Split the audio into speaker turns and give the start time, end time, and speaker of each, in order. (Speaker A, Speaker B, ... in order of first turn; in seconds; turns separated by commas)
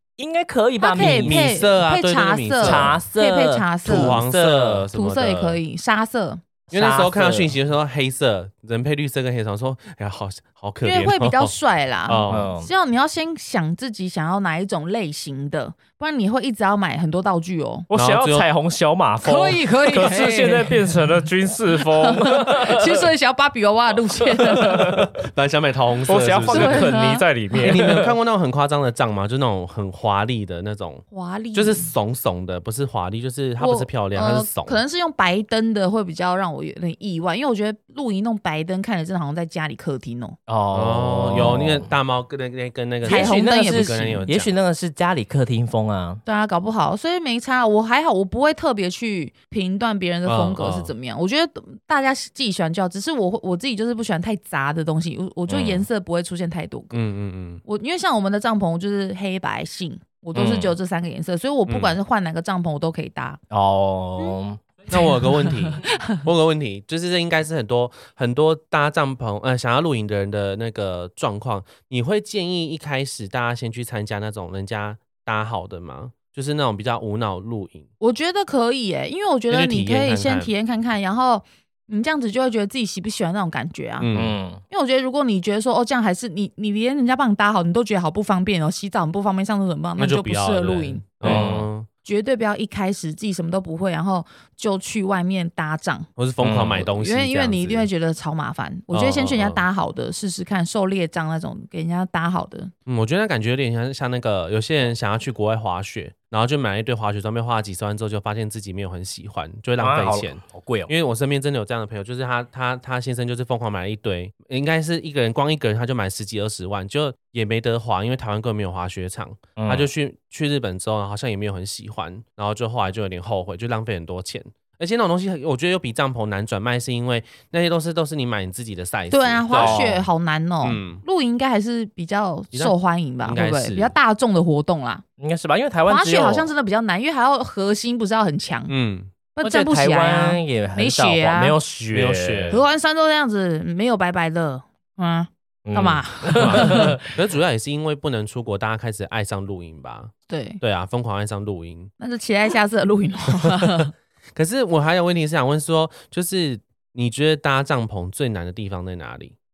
Speaker A: 0.2-1.4, Speaker B: 0.8-4.2, Speaker C: 0.9-3.0, Speaker A: 2.6-4.9, Speaker C: 3.8-5.6, Speaker B: 4.9-6.4, Speaker A: 6.7-7.5, Speaker C: 6.7-11.5, Speaker B: 10.8-17.9, Speaker C: 12.1-12.5, Speaker A: 12.3-12.7, Speaker A: 17.9-23.1, Speaker C: 17.9-18.5, Speaker B: 19.2-21.1, Speaker B: 21.7-24.9, Speaker A: 24.2-25.0, Speaker C: 24.6-26.9, Speaker A: 26.1-28.1, Speaker B: 26.5-27.9, Speaker C: 27.6-34.8, Speaker B: 31.1-31.9, Speaker B: 33.6-40.4, Speaker A: 40.5-41.9, Speaker C: 40.7-44.5, Speaker B: 43.0-44.2, Speaker A: 43.0-46.2, Speaker B: 46.2-57.0, Speaker C: 50.2-50.9, Speaker C: 55.5-55.8, Speaker C: 56.9-57.6, Speaker B: 57.6-63.4, Speaker A: 60.3-60.8, Speaker C: 61.7-62.0, Speaker A: 63.5-64.6, Speaker C: 64.9-77.9, Speaker B: 64.9-66.2, Speaker B: 78.0-84.1, Speaker C: 79.5-80.5, Speaker C: 84.0-84.3, Speaker A: 84.1-84.6, Speaker B: 84.7-91.5, Speaker C: 90.0-91.9, Speaker A: 91.2-91.7, Speaker B: 92.0-96.1, Speaker C: 96.2-97.9, Speaker A: 96.4-96.9, Speaker B: 96.8-102.7, Speaker C: 98.9-99.6, Speaker C: 102.9-130.0, Speaker A: 109.8-110.9, Speaker A: 119.6-119.9, Speaker B: 129.1-135.0, Speaker A: 129.5-130.0, Speaker C: 130.6-131.0, Speaker C: 132.5-133.9, Speaker A: 135.2-136.5, Speaker B: 135.9-138.7, Speaker C: 138.7-139.1, Speaker B: 139.3-141.6, Speaker A: 139.4-142.6, Speaker C: 141.9-142.6, Speaker B: 142.5-147.0, Speaker A: 145.7-147.0, Speaker C: 146.3-151.9, Speaker B: 150.3-150.6, Speaker B: 152.0-153.9, Speaker C: 154.3-159.3